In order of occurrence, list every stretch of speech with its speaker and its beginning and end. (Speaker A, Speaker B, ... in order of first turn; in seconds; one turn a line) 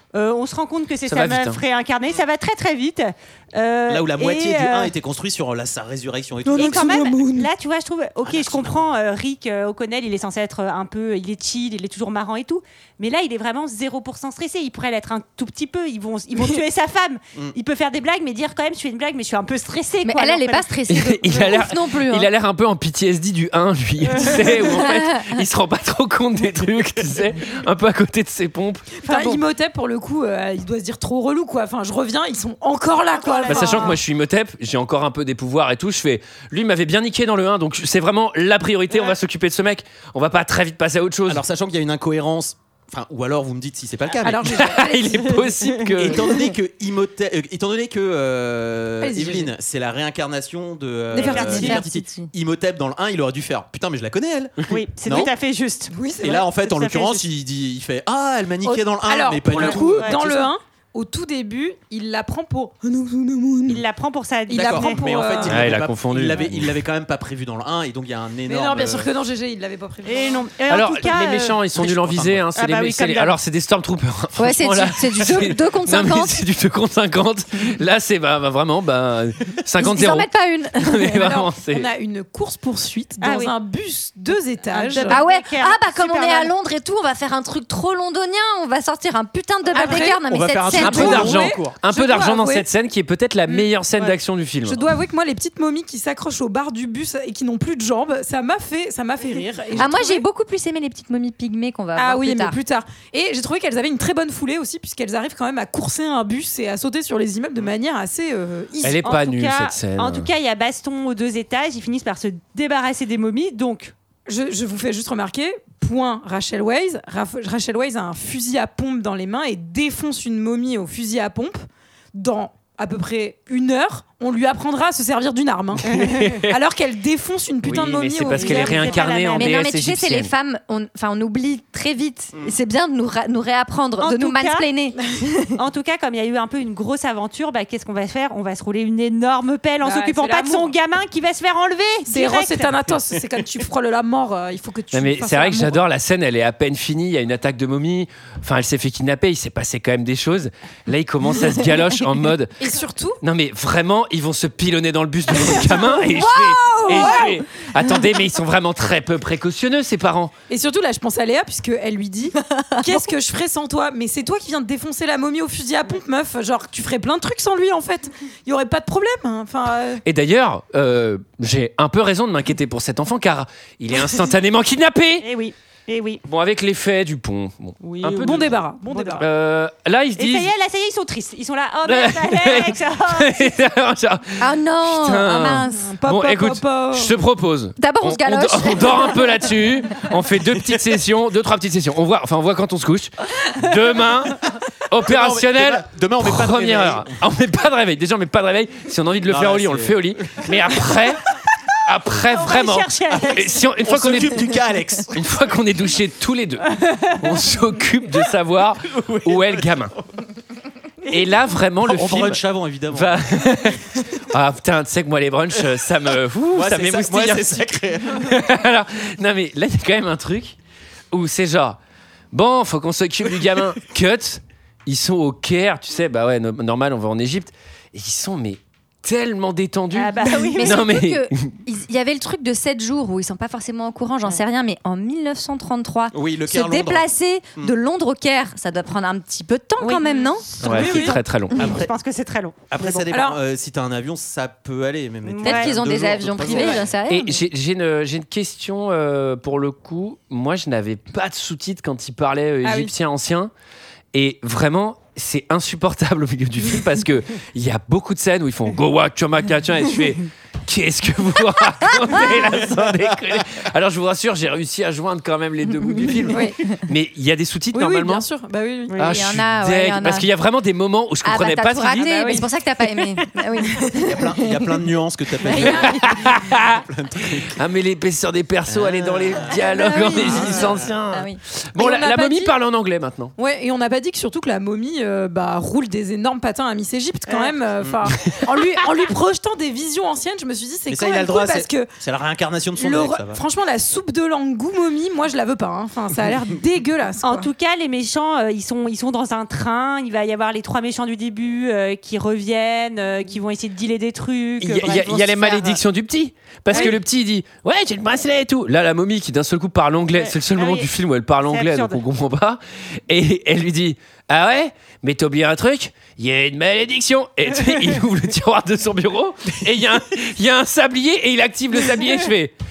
Speaker A: 0.1-4.9
Speaker B: 1.1-1.6
Speaker C: 3.9-7.0
Speaker D: 6.5-7.5
Speaker A: 6.5-20.7
Speaker C: 8.2-8.9
Speaker E: 20.0-22.3
Speaker B: 20.9-29.0
Speaker E: 24.6-25.3
Speaker D: 29.0-34.0
Speaker A: 33.1-34.0
Speaker B: 33.5-41.4
Speaker C: 41.3-44.7
Speaker D: 44.2-45.5
Speaker B: 44.5-46.3
Speaker C: 45.9-55.3
Speaker D: 49.0-49.5
Speaker A: 51.1-51.8
Speaker D: 51.2-51.8
Speaker E: 51.5-52.3
Speaker A: 54.7-57.2
Speaker D: 55.9-56.4
Speaker C: 56.2-60.5
Speaker D: 58.6-63.8
Speaker A: 59.5-60.2
Speaker A: 63.7-65.0
Speaker D: 64.5-65.7
Speaker C: 64.5-69.1
Speaker B: 65.4-66.8
Speaker D: 68.5-70.5
Speaker A: 70.0-73.3
Speaker B: 70.7-81.9
Speaker C: 72.0-72.4
Speaker E: 74.4-76.4
Speaker E: 79.8-81.2
Speaker D: 81.0-85.2
Speaker A: 83.2-83.5
Speaker A: 84.7-86.5
Speaker E: 85.1-91.3
Speaker D: 89.7-90.2
Speaker C: 90.3-91.7
Speaker B: 90.7-94.8
Speaker D: 90.8-92.7
Speaker D: 93.5-93.7
Speaker D: 94.6-100.2
Speaker E: 99.8-102.5
Speaker D: 102.0-109.1
Speaker B: 108.8-110.3
Speaker A: 109.0-113.9
Speaker D: 114.2-121.6
Speaker D: 122.1-129.0
Speaker B: 125.8-126.5
Speaker A: 125.9-126.2
Speaker B: 127.6-130.3
Speaker A: 128.3-129.6
Speaker E: 129.3-135.5
Speaker A: 134.0-134.7
Speaker A: 135.5-142.9
Speaker D: 139.8-140.7
Speaker D: 142.1-145.8
Speaker B: 144.9-160.3
Speaker D: 152.6-153.2
Speaker D: 155.5-155.8
Speaker E: 156.0-157.4
Speaker D: 156.7-157.3
Speaker D: 160.5-170.0
Speaker E: 162.5-163.1
Speaker B: 170.0-175.3
Speaker A: 175.2-176.2
Speaker B: 176.2-178.5
Speaker A: 177.8-179.2
Speaker D: 178.2-179.2
Speaker B: 179.2-180.5
Speaker A: 180.2-183.6
Speaker B: 181.8-201.2
Speaker E: 184.4-185.9
Speaker D: 185.6-187.1
Speaker E: 187.8-189.5
Speaker C: 190.4-190.8
Speaker C: 195.0-197.1
Speaker C: 199.2-201.1
Speaker B: 201.8-204.5
Speaker A: 202.3-203.5
Speaker C: 203.1-205.3
Speaker B: 205.1-209.9
Speaker C: 208.8-210.2
Speaker B: 211.1-220.6
Speaker C: 211.8-213.3
Speaker C: 216.5-218.4
Speaker B: 221.1-221.8
Speaker B: 222.3-231.5
Speaker A: 229.9-230.9
Speaker E: 230.2-240.5
Speaker C: 236.1-237.7
Speaker A: 239.8-243.1
Speaker B: 240.6-241.8
Speaker D: 240.7-241.2
Speaker C: 242.7-246.9
Speaker D: 243.1-243.4
Speaker A: 245.2-245.7
Speaker E: 245.4-247.4
Speaker A: 246.4-246.8
Speaker B: 247.1-253.5
Speaker D: 252.6-252.9
Speaker B: 254.1-268.2
Speaker C: 262.5-263.1
Speaker D: 266.3-266.7
Speaker D: 267.7-269.0
Speaker B: 269.0-272.3
Speaker E: 269.0-270.3
Speaker E: 271.2-274.8
Speaker D: 272.0-272.4
Speaker C: 274.1-277.5
Speaker E: 275.5-276.0
Speaker D: 275.5-275.8
Speaker B: 275.6-276.8
Speaker B: 277.5-283.3
Speaker C: 278.7-280.9
Speaker E: 279.6-281.4
Speaker D: 281.8-282.5
Speaker D: 283.4-291.9
Speaker C: 287.8-288.2
Speaker C: 290.9-293.4
Speaker D: 292.8-297.5
Speaker A: 297.2-305.8
Speaker B: 304.6-322.5
Speaker A: 306.7-307.0
Speaker A: 310.1-310.9
Speaker A: 311.4-312.0